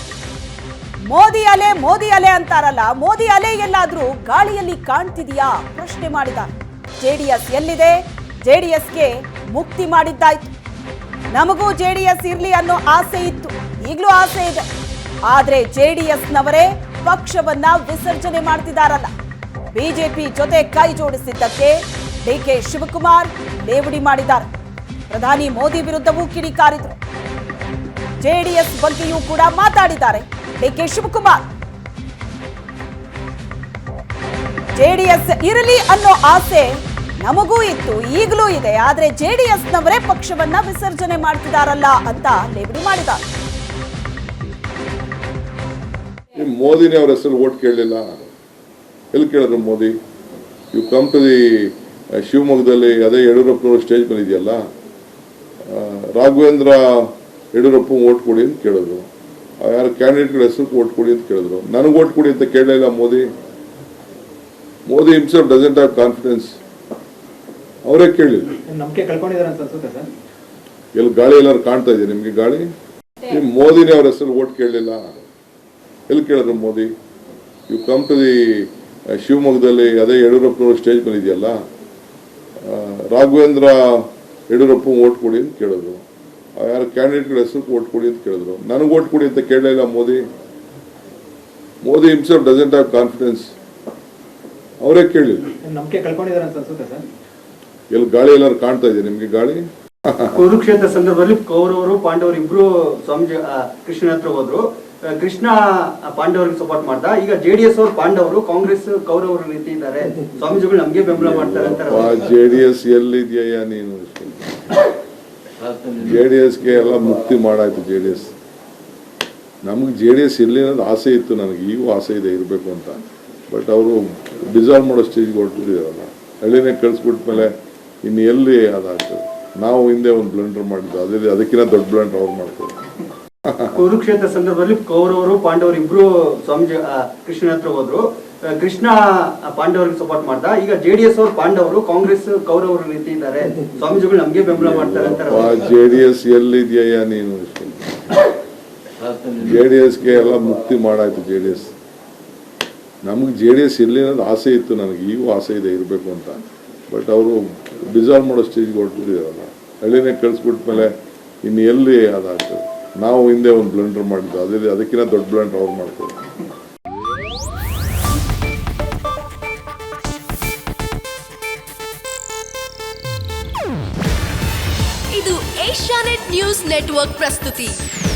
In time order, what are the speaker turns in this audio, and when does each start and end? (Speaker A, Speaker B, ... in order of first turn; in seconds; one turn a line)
Speaker A: 1.1-10.5
Speaker A: 11.3-14.6
Speaker A: 15.3-19.1
Speaker A: 19.7-24.5
Speaker A: 25.1-26.9
Speaker A: 28.2-31.5
Speaker A: 34.8-43.2
Speaker B: 46.3-48.3
Speaker B: 49.1-49.9
Speaker B: 50.7-54.6
Speaker B: 55.6-59.1
Speaker B: 59.6-63.3
Speaker B: 64.9-66.5
Speaker B: 67.8-68.6
Speaker C: 68.7-70.1
Speaker B: 71.0-72.7
Speaker B: 73.2-75.3
Speaker B: 76.1-76.9
Speaker B: 77.7-81.6
Speaker B: 82.6-86.0
Speaker B: 86.6-90.2
Speaker B: 91.8-93.5
Speaker B: 94.8-95.5
Speaker C: 95.6-97.0
Speaker B: 97.9-100.4
Speaker D: 100.3-112.2
Speaker B: 111.1-114.8
Speaker B: 115.9-118.3
Speaker B: 119.6-127.5
Speaker B: 128.0-132.8
Speaker B: 133.4-133.8
Speaker D: 133.7-145.6
Speaker B: 144.5-148.2
Speaker B: 149.3-151.7
Speaker B: 153.0-166.2
Speaker E: 175.1-177.8